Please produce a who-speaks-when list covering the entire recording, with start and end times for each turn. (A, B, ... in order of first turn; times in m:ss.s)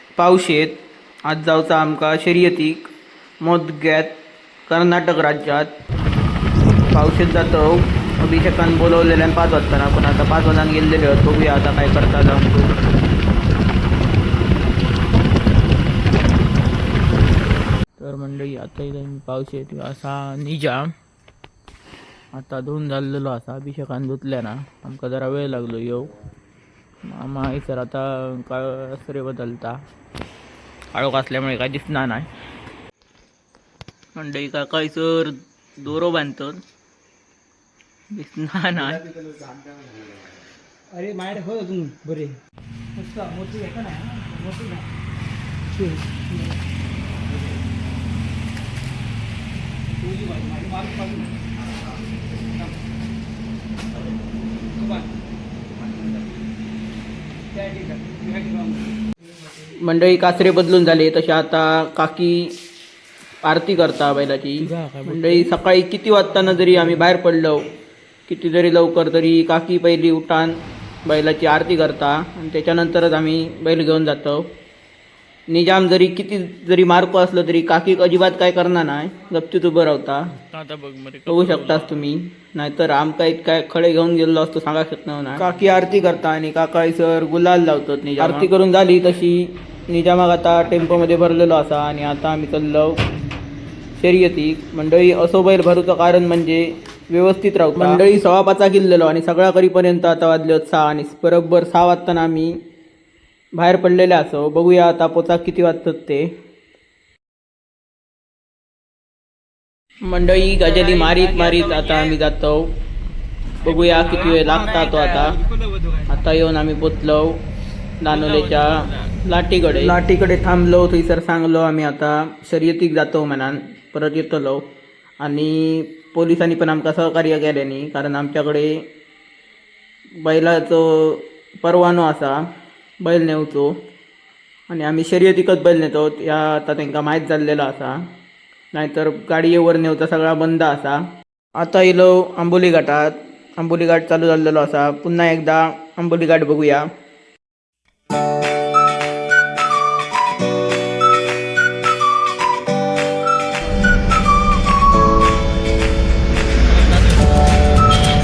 0:00.2-0:00.8 A
0:01.3-0:02.9 A
0:03.4-0:04.1 A
0:04.7-0:05.7 A
0:06.9-0:12.7 A
0:18.0-0:20.9 A
0:22.3-0:26.1 A
0:27.1-0:29.8 A
0:30.9-0:32.3 A
0:34.2-0:36.6 A
0:38.1-0:39.0 A
0:40.9-0:42.4 B
0:43.0-0:44.9 B
0:45.7-0:46.6 B
0:50.0-0:51.3 B
0:54.8-0:55.1 B
0:57.5-0:58.9 B
0:59.8-1:02.5 A
1:03.4-1:07.6 A
1:04.6-1:05.5 C
1:08.3-1:10.5 A
1:11.0-1:14.4 A
1:15.5-1:20.3 A
1:20.4-1:22.1 C
1:21.3-1:29.4 A
1:28.2-1:28.6 C
1:29.9-1:32.9 A
1:34.0-1:36.6 A
1:37.2-1:42.5 A
1:37.6-1:38.0 C
1:43.6-1:46.2 A
1:50.1-1:52.6 A
1:50.6-1:52.1 C
1:53.6-1:55.4 A
1:53.8-1:56.1 B
1:53.8-1:55.2 C
1:56.1-1:57.3 A
1:58.0-2:04.6 A
1:58.1-2:00.0 C
2:05.2-2:08.7 A
2:10.2-2:12.4 A
2:13.0-2:13.7 A
2:14.7-2:18.0 A
2:18.7-2:21.0 A
2:21.6-2:26.8 A
2:36.7-2:37.3 A